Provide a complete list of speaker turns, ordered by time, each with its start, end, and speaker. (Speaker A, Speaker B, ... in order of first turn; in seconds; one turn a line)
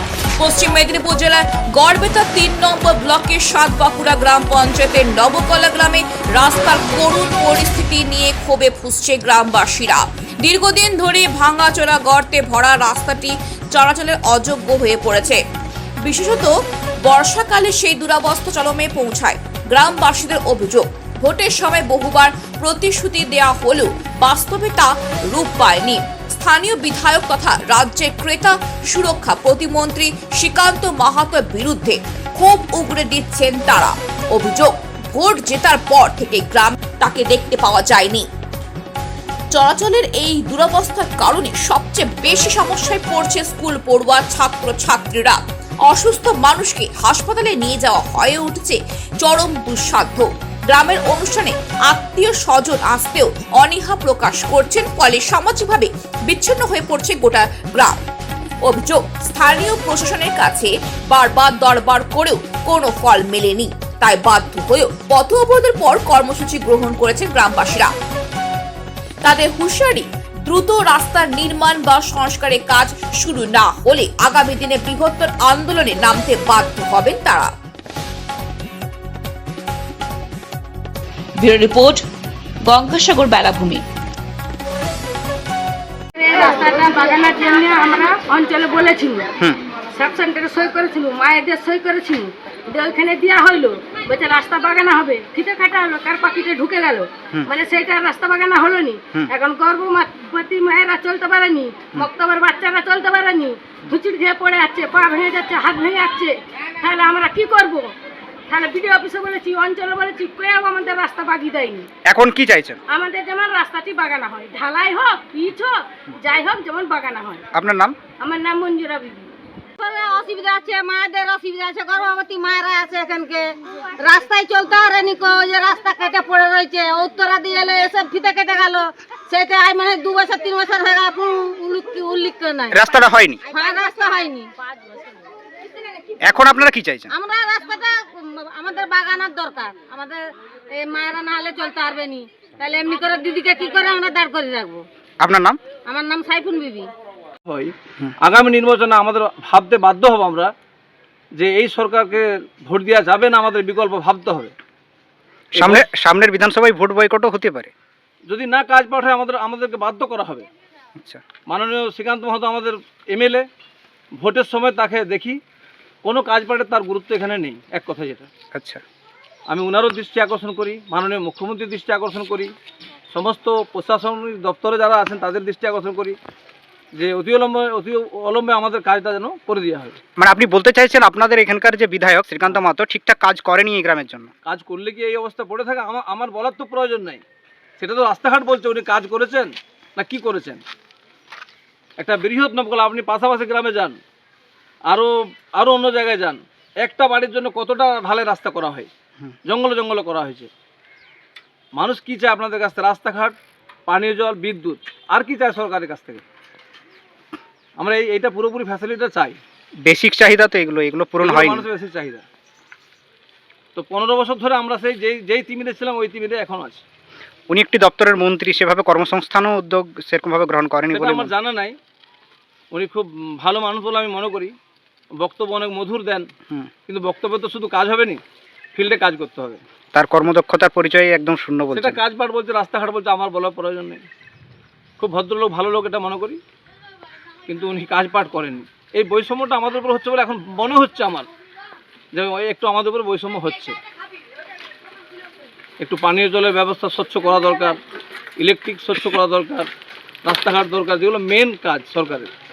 Speaker A: 0.4-15.4
Speaker A: 16.0-38.3
Speaker A: 39.5-58.0
Speaker A: 58.6-67.9
Speaker A: 69.2-77.5
Speaker A: 81.4-82.0
Speaker A: 82.6-83.8
Speaker B: 86.2-89.3
Speaker B: 89.9-107.9
Speaker B: 108.5-111.9
Speaker C: 112.1-112.8
Speaker B: 112.9-117.4
Speaker C: 117.5-118.0
Speaker B: 118.2-119.3
Speaker D: 119.8-123.5
Speaker D: 124.0-132.8
Speaker C: 132.7-133.4
Speaker D: 133.5-134.5
Speaker C: 136.2-137.1
Speaker D: 137.1-140.2
Speaker D: 140.7-144.9
Speaker C: 145.2-145.6
Speaker D: 145.8-146.9
Speaker E: 147.5-150.5
Speaker E: 151.3-154.5
Speaker C: 155.5-157.7
Speaker E: 155.6-155.8
Speaker E: 158.3-160.5
Speaker E: 161.5-163.5
Speaker E: 164.2-165.4
Speaker E: 166.0-168.3
Speaker C: 168.5-168.8
Speaker E: 169.5-172.5
Speaker E: 173.1-176.2
Speaker E: 176.9-180.0
Speaker C: 180.2-184.3
Speaker E: 184.4-187.2
Speaker E: 187.8-190.6
Speaker E: 192.0-194.0
Speaker E: 194.9-198.9
Speaker E: 199.5-200.5
Speaker E: 201.8-206.2
Speaker E: 207.8-209.4
Speaker C: 209.8-211.7
Speaker E: 211.2-212.2
Speaker E: 213.8-216.8
Speaker C: 217.5-221.3
Speaker E: 220.9-221.8
Speaker E: 222.7-224.6
Speaker E: 225.2-226.3
Speaker E: 226.9-228.2
Speaker E: 228.8-229.6
Speaker C: 229.9-232.0
Speaker E: 231.7-234.1
Speaker E: 235.0-236.4
Speaker E: 237.5-241.3
Speaker E: 242.1-243.8
Speaker E: 245.8-247.8
Speaker E: 248.4-249.7
Speaker E: 250.2-252.3